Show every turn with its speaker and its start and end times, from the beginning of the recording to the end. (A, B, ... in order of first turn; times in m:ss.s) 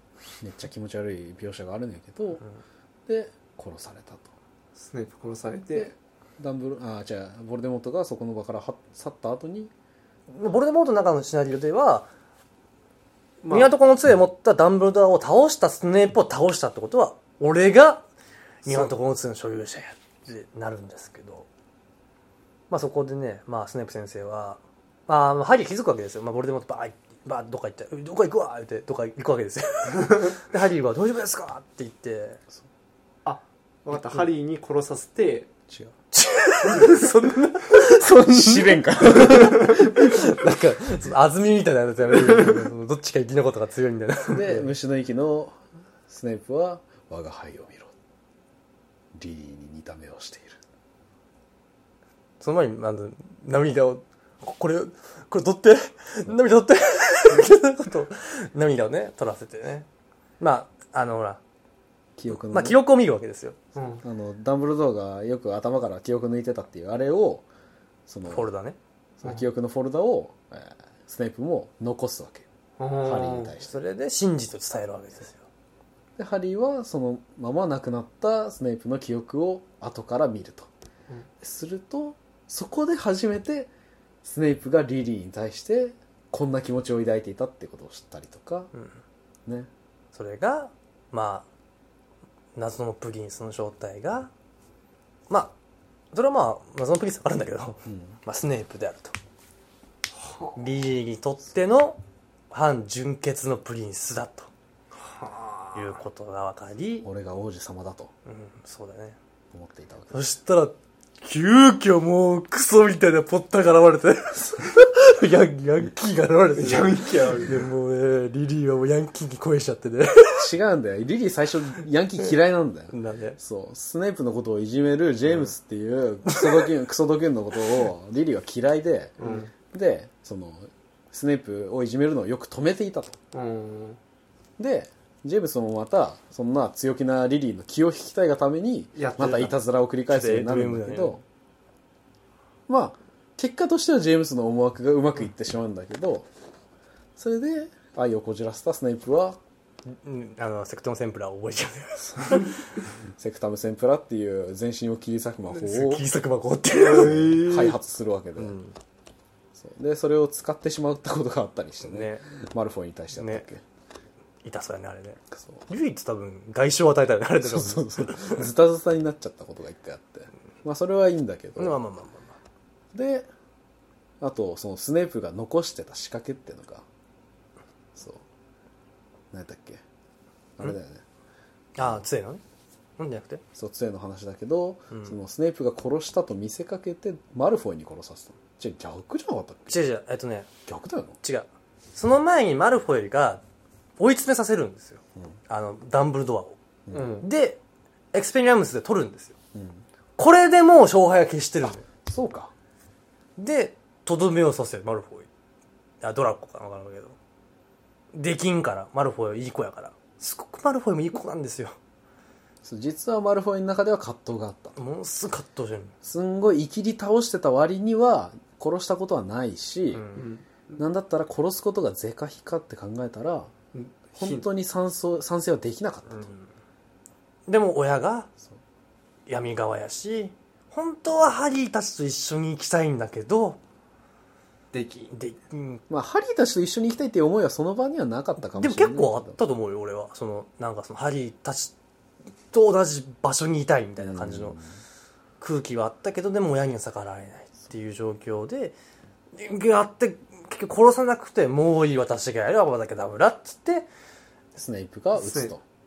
0:00.4-0:02.4 A
0:03.1-0:04.3 A
0:04.8-0:05.9 B
0:05.7-0:09.7 A
0:10.3-0:12.1 C
0:13.4-0:13.7 B
0:13.5-0:18.0 C
0:18.6-0:21.5 C
0:22.7-0:32.4 C
0:33.2-0:35.5 B
0:36.1-0:44.7 C
0:36.7-0:37.1 B
0:38.0-0:40.0 A
0:44.3-0:45.6 A
0:46.1-0:47.9 A
0:49.1-0:50.6 A
0:52.4-0:59.9 C
1:00.4-1:01.4 C
1:02.2-1:02.8 A
1:02.3-1:03.6 C
1:03.7-1:04.0 B
1:04.0-1:07.4 A
1:08.1-1:08.5 A
1:08.3-1:08.8 C
1:09.2-1:12.4 A
1:12.8-1:13.5 B
1:13.0-1:13.7 A
1:13.6-1:15.4 C
1:16.2-1:20.7 A
1:21.4-1:23.7 A
1:24.2-1:28.7 A
1:30.1-1:31.5 C
1:32.6-1:34.3 C
1:35.3-1:35.5 C
1:36.1-1:39.1 C
1:37.9-1:38.1 A
1:40.2-1:40.6 B
1:40.6-1:42.0 C
1:42.5-1:44.5 C
1:45.0-1:45.8 B
1:45.7-1:47.1 C
1:47.0-1:48.1 A
1:48.2-1:49.2 C
1:49.5-1:50.2 A
1:50.1-2:00.5 C
1:56.6-1:57.6 B
2:00.4-2:13.2 A
2:02.9-2:03.4 C
2:09.2-2:09.5 B
2:13.3-2:14.0 B
2:14.6-2:21.2 A
2:19.0-2:19.6 B
2:20.1-2:21.2 C
2:22.7-2:26.3 A
2:27.2-2:29.4 A
2:29.9-2:32.6 C
2:33.2-2:36.0 A
2:35.5-2:37.4 C
2:36.8-2:37.8 B
2:36.9-2:38.6 A
2:38.4-2:38.8 C
2:39.5-2:43.6 A
2:41.8-2:42.2 C
2:43.1-2:43.4 C
2:44.4-2:48.4 C
2:47.4-2:51.8 A
2:51.6-2:52.3 C
2:52.9-2:53.3 A
2:54.2-2:56.9 A
2:57.9-2:58.2 A
2:59.3-2:59.8 A
3:00.6-3:01.0 A
3:01.8-3:02.4 C
3:03.0-3:03.4 C
3:03.5-3:09.8 A
3:09.7-3:10.5 C
3:10.6-3:11.2 A
3:11.2-3:13.4 C
3:14.0-3:16.6 C
3:16.9-3:17.1 A
3:16.9-3:17.3 B
3:17.2-3:17.6 C
3:18.1-3:19.4 C
3:19.5-3:19.8 A
3:20.2-3:21.9 C
3:22.0-3:22.5 A
3:23.4-3:25.3 C
3:26.0-3:27.2 C
3:28.1-3:31.8 C
3:32.6-3:34.8 A
3:34.8-3:35.9 C
3:36.0-3:40.0 A
3:39.9-3:40.2 C
3:40.2-3:40.8 B
3:40.8-3:43.5 A
3:43.7-3:44.4 B
3:44.2-3:46.3 A
3:46.1-3:46.5 C
3:47.5-3:48.3 C
3:49.3-3:53.6 C
3:54.7-3:55.1 B
3:55.1-3:55.8 C
3:55.9-3:59.4 A
3:58.5-4:01.7 C
4:02.5-4:04.6 C
4:04.0-4:04.8 A
4:05.4-4:08.8 C
4:09.3-4:13.9 C
4:14.6-4:15.6 A
4:15.2-4:15.5 B